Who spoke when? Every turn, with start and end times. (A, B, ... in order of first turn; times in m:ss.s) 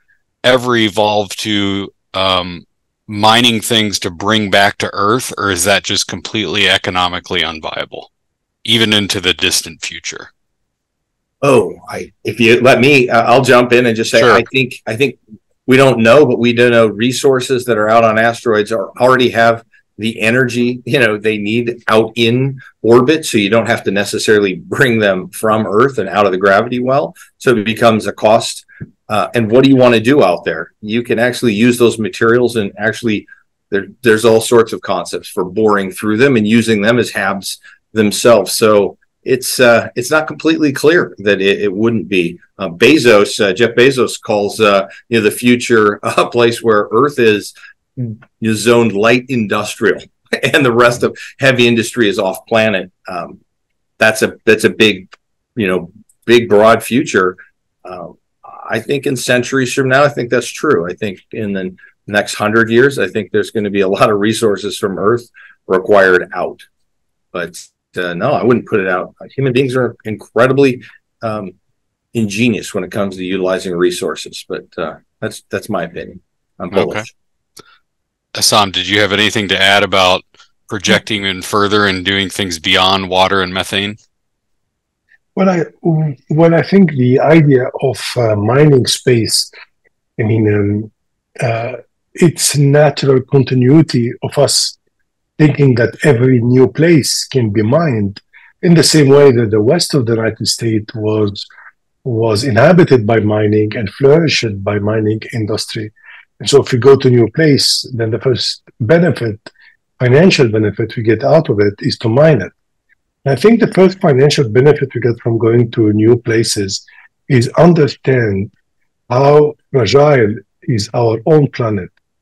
0:00.4-0:08.1 A
0:08.6-0:10.3 A
0:11.4-0:53.4 B
0:14.1-0:14.4 A
0:54.0-1:06.6 B
1:07.3-1:11.5 B
1:12.1-1:17.1 B
1:16.7-1:17.0 A
1:18.3-1:24.0 A
1:25.3-1:29.5 C
1:30.2-1:34.8 C
1:35.4-1:41.5 C
1:42.0-1:49.5 C
1:50.0-1:52.5 C
1:53.2-1:58.5 C
1:59.1-2:01.9 C